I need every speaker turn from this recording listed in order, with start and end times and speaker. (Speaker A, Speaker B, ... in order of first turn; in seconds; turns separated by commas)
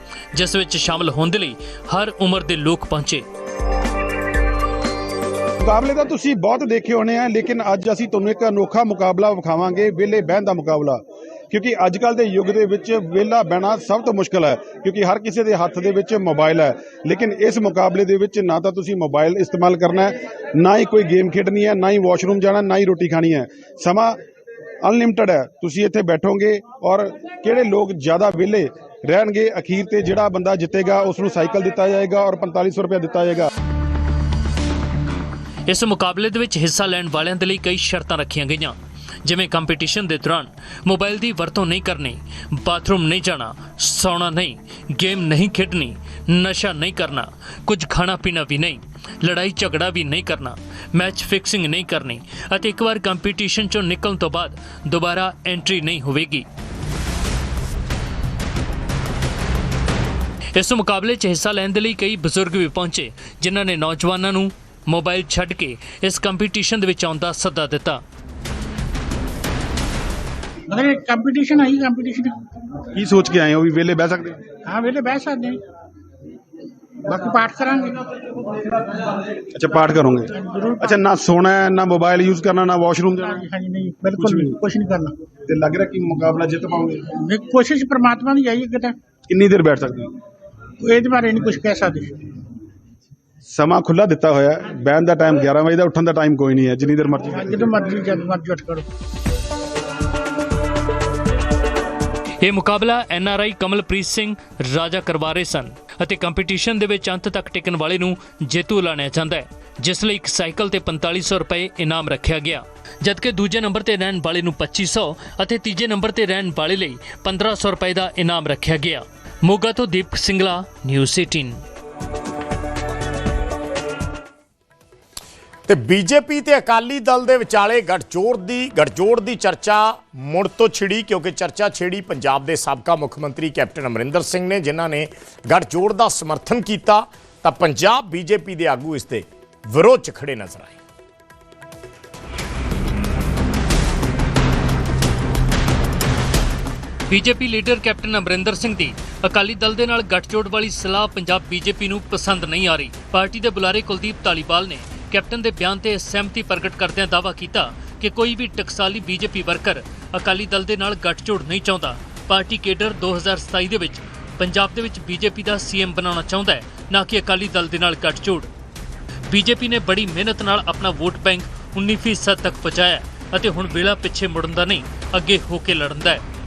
Speaker A: 0.3-3.2, Speaker B: 5.6-24.2, Speaker B: 24.8-33.5, Speaker A: 35.7-56.5, Speaker A: 60.5-68.0, Speaker C: 70.7-72.3, Speaker B: 72.9-74.4, Speaker C: 74.6-75.6, Speaker C: 77.0-78.1, Speaker B: 79.5-80.3, Speaker C: 80.3-81.0, Speaker B: 80.8-83.3, Speaker C: 83.2-85.1, Speaker B: 84.2-84.5, Speaker B: 85.5-87.0, Speaker C: 87.1-89.0, Speaker B: 89.3-90.1, Speaker C: 90.8-92.2, Speaker B: 93.5-97.6, Speaker C: 97.3-98.8, Speaker A: 102.4-121.6, Speaker D: 125.7-140.8, Speaker A: 147.1-168.5, Speaker A: 169.3-176.2